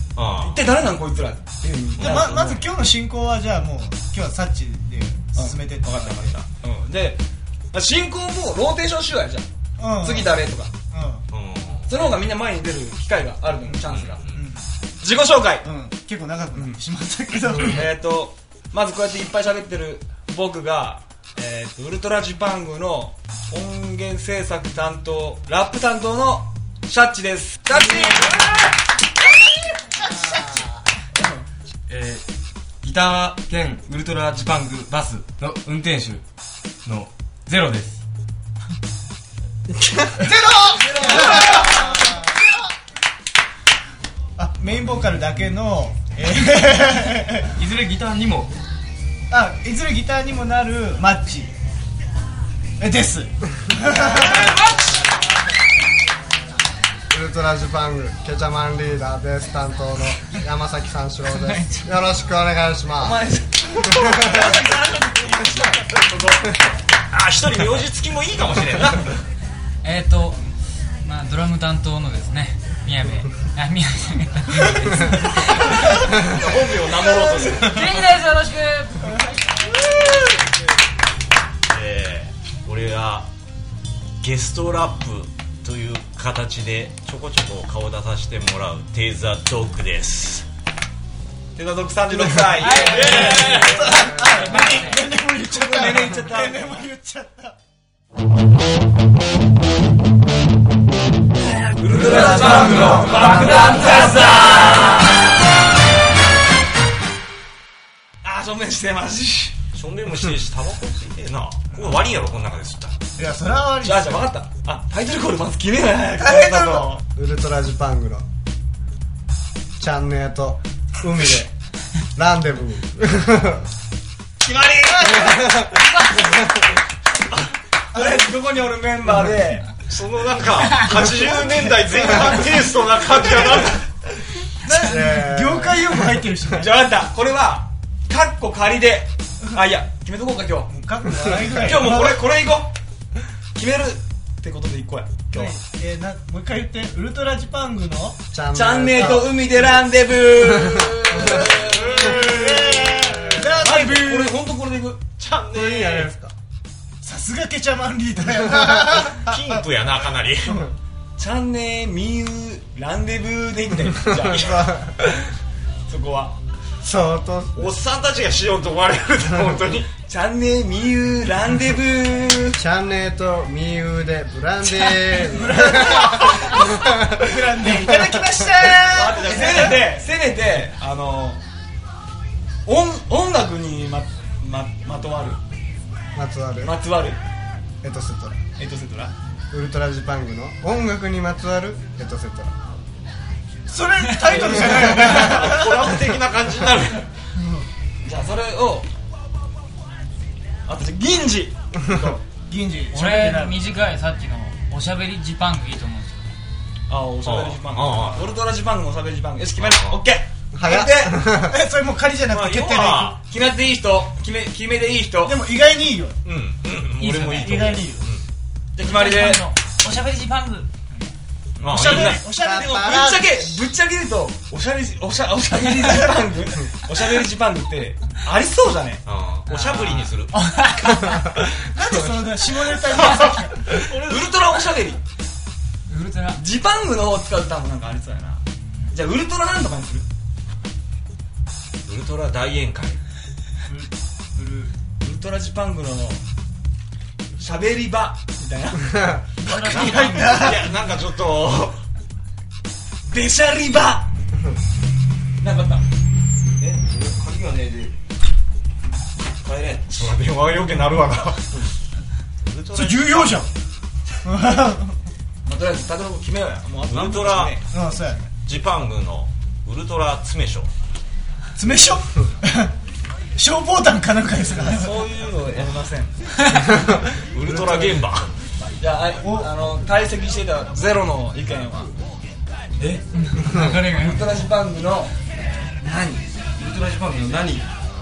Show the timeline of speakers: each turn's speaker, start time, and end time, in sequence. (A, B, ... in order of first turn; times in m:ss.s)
0:00.2-0:00.6 A
0:00.4-0:02.7 B
0:02.0-0:02.3 A
0:02.0-0:06.4 C
0:05.3-0:09.5 B
0:09.8-0:10.4 C
0:10.0-0:10.7 B
0:10.9-0:11.2 C
0:11.3-0:12.0 A
0:11.9-0:14.2 B
0:13.9-0:14.4 A
0:14.3-0:14.6 C
0:15.0-0:15.7 B
0:15.6-0:17.8 C
0:16.5-0:16.8 B
0:17.6-0:28.6 B
0:30.0-0:30.3 C
0:30.1-0:30.4 D
0:31.1-0:31.5 B
0:31.9-0:32.2 E
0:32.8-0:36.2 E
0:32.8-0:35.2 B
0:36.8-0:38.0 E
0:39.7-0:40.3 D
0:40.2-0:42.4 C
0:40.8-0:41.5 B
0:44.4-0:47.5 C
0:47.5-0:48.5 E
0:49.3-0:51.5 C
0:52.8-0:54.5 C
0:54.1-0:54.9 A
0:54.1-0:55.0 B
0:57.1-1:03.2 D
1:01.3-1:01.9 F
1:03.0-1:05.8 B
1:03.9-1:04.6 D
1:04.4-1:05.6 C
1:07.1-1:09.2 A
1:09.8-1:10.4 F
1:11.0-1:16.0 F
1:16.1-1:18.1 A
1:17.4-1:19.7 F
1:21.7-1:23.3 A
1:24.2-1:30.5 A
1:31.6-1:33.6 B
1:32.6-1:35.1 F
1:32.6-1:33.9 A
1:33.6-1:37.6 C
1:35.4-1:36.9 B
1:48.2-1:49.6 B
1:49.7-1:52.9 A
1:53.2-1:54.2 C
1:53.8-1:57.0 B
1:56.2-1:56.8 C
1:57.2-1:58.2 D
1:59.8-2:01.5 D
2:02.2-2:03.7 D
2:04.4-2:05.2 A
2:04.6-2:05.2 B
2:04.9-2:05.3 C
2:05.0-2:06.6 D
2:07.9-2:09.7 B
2:07.9-2:08.2 C
2:09.9-2:13.9 A
2:11.2-2:12.2 C
2:14.6-2:16.7 C
2:14.7-2:16.0 D
2:16.5-2:20.7 B
2:20.7-2:22.2 C
2:21.6-2:22.7 B
2:23.6-2:25.6 B
2:25.3-2:28.2 C
2:28.3-2:29.3 D
2:28.5-2:32.3 B
2:30.4-2:31.5 D
2:31.4-2:33.0 A
2:32.1-2:34.4 C
2:33.0-2:33.5 D
2:33.6-2:35.0 B
2:35.2-2:36.1 A
2:35.5-2:36.3 D
2:37.0-2:39.3 C
2:38.8-2:40.7 A
2:41.2-2:44.9 B
2:43.9-2:45.0 D
2:45.9-2:46.4 B
2:46.8-2:47.7 D
2:47.5-2:49.9 A
2:49.4-2:49.6 D
2:50.0-2:52.6 B
2:52.6-2:57.4 D
2:54.8-2:59.7 C
2:58.8-3:01.4 B
2:59.3-2:59.7 A
3:02.7-3:05.4 B
3:06.1-3:06.7 D
3:06.6-3:07.2 B
3:07.8-3:08.4 D
3:08.6-3:09.1 B
3:09.5-3:12.5 D
3:13.7-3:15.8 C
3:14.2-3:14.7 F
3:14.7-3:17.1 A
3:17.4-3:17.7 C
3:18.0-3:18.9 B
3:20.7-3:22.2 B
3:21.9-3:22.2 D
3:22.5-3:23.6 C
3:22.9-3:26.3 F
3:26.9-3:30.8 B
3:27.2-3:28.3 A
3:29.6-3:30.0 A
3:30.5-3:31.6 D
3:30.7-3:33.1 C
3:32.3-3:33.2 A
3:33.2-3:35.4 B
3:35.2-3:36.2 C
3:36.2-3:38.2 A
3:37.0-3:38.1 C
3:37.3-3:37.8 F
3:38.8-3:39.4 B
3:38.8-3:40.7 F
3:41.6-3:42.2 A
3:41.7-3:43.5 C
3:41.9-3:49.0 B
3:42.3-3:43.1 D
3:49.1-3:50.4 A
3:49.5-3:51.3 F
3:51.6-3:53.6 C
3:53.7-3:54.6 A
3:53.7-3:55.0 B
3:55.9-3:56.4 F
3:56.4-4:00.1 B
4:01.9-4:03.0 A
4:03.7-4:04.7 C
4:05.0-4:06.2 B
4:07.4-4:09.5 B
4:08.9-4:09.2 D
4:09.4-4:10.3 F
4:09.4-4:10.7 C
4:09.6-4:11.8 A
4:13.1-4:14.1 B
4:15.4-4:15.8 B
4:16.9-4:17.9 E
4:17.0-4:17.6 A
4:19.4-4:21.6 A
4:22.4-4:23.5 A
4:22.8-4:23.5 C
4:24.2-4:25.0 C
4:25.4-4:27.6 B
4:26.9-4:27.6 A
4:27.7-4:28.3 C
4:28.4-4:30.7 A
4:31.6-4:32.7 C
4:33.4-4:35.0 C
4:34.6-4:36.2 B
4:37.0-4:38.3 A
4:37.6-4:38.0 D
4:38.8-4:41.9 B
4:39.2-4:39.5 C
4:43.1-4:44.3 F
4:44.0-4:45.1 B
4:45.8-4:46.2 B
4:46.6-4:47.6 E